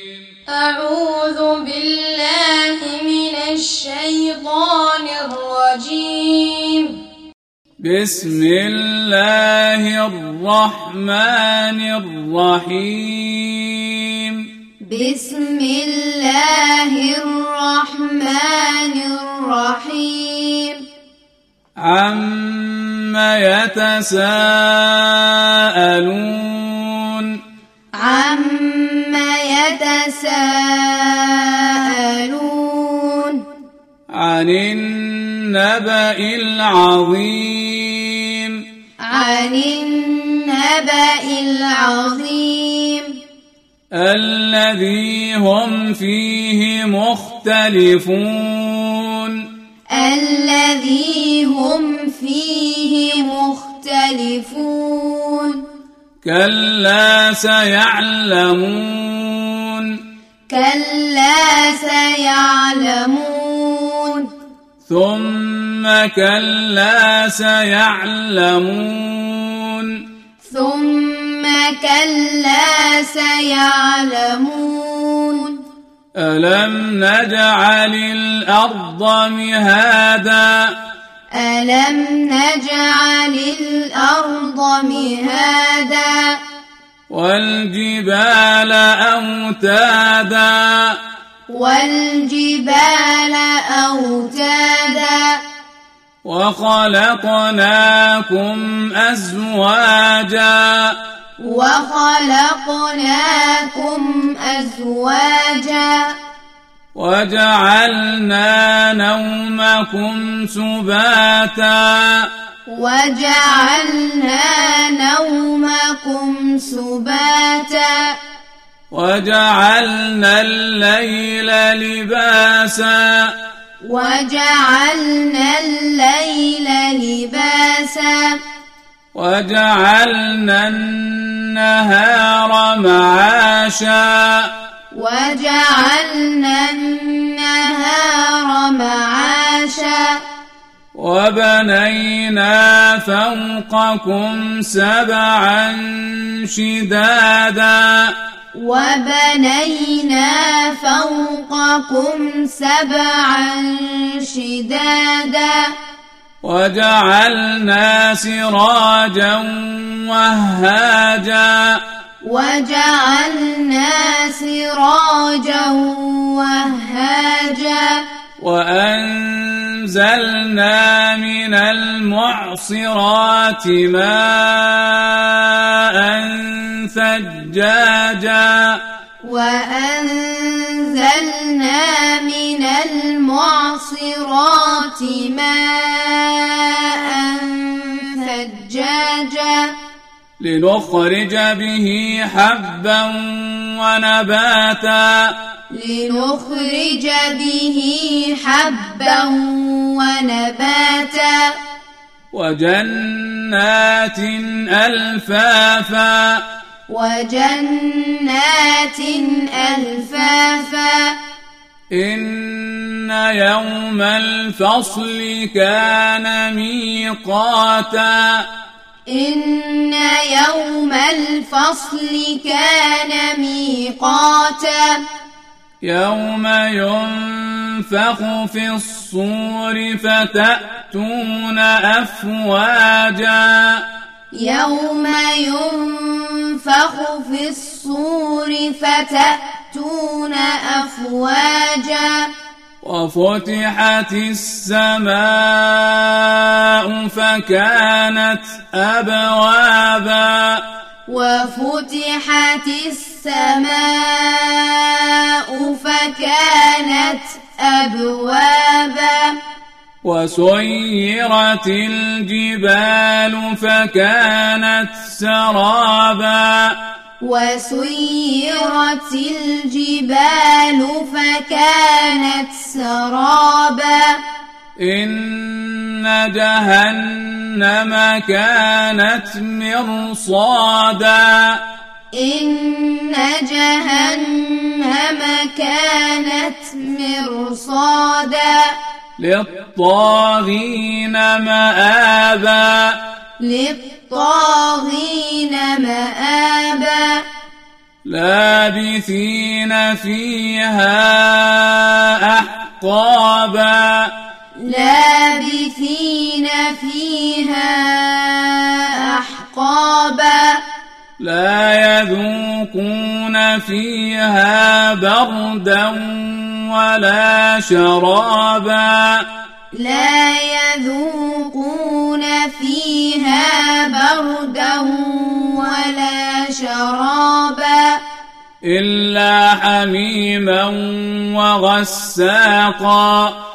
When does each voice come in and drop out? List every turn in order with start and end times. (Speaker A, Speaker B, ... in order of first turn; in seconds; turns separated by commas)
Speaker A: 0.5-7.0, Speaker B: 7.8-14.4, Speaker A: 14.8-20.8, Speaker B: 21.8-27.4, Speaker A: 28.0-33.4, Speaker B: 34.1-38.6, Speaker A: 39.0-43.2, Speaker B: 43.9-49.4, Speaker A: 49.9-55.7, Speaker B: 56.2-59.9, Speaker A: 60.5-64.3, Speaker B: 64.9-70.0, Speaker A: 70.4-75.6, Speaker B: 76.2-80.7, Speaker A: 81.3-86.4, Speaker B: 87.1-91.0, Speaker A: 91.5-95.4, Speaker B: 96.2-101.0, Speaker A: 101.4-106.2, Speaker B: 107.0-112.3, Speaker A: 112.7-118.2, Speaker B: 118.9-123.3, Speaker A: 123.8-128.4, Speaker B: 129.1-134.5, Speaker A: 134.9-140.2, Speaker B: 140.9-148.1, Speaker A: 148.6-155.7, Speaker B: 156.4-161.8, Speaker A: 162.2-168.1, Speaker B: 168.4-178.8, Speaker A: 179.2-189.7, Speaker B: 190.4-195.3, Speaker A: 195.7-201.6, Speaker B: 202.3-206.4, Speaker A: 206.9-211.2, Speaker B: 211.9-218.5, Speaker A: 219.1-225.0, Speaker B: 225.8-233.8, Speaker A: 234.3-242.3, Speaker B: 242.8-250.6, Speaker A: 251.1-259.4, Speaker B: 260.0-266.8, Speaker A: 267.2-274.2, Speaker B: 274.8-281.6, Speaker A: 282.1-288.7, Speaker B: 289.2-293.0, Speaker A: 293.4-297.2, Speaker B: 298.1-304.1, Speaker A: 304.6-310.6, Speaker B: 311.2-319.2, Speaker A: 319.7-328.0, Speaker B: 328.6-333.3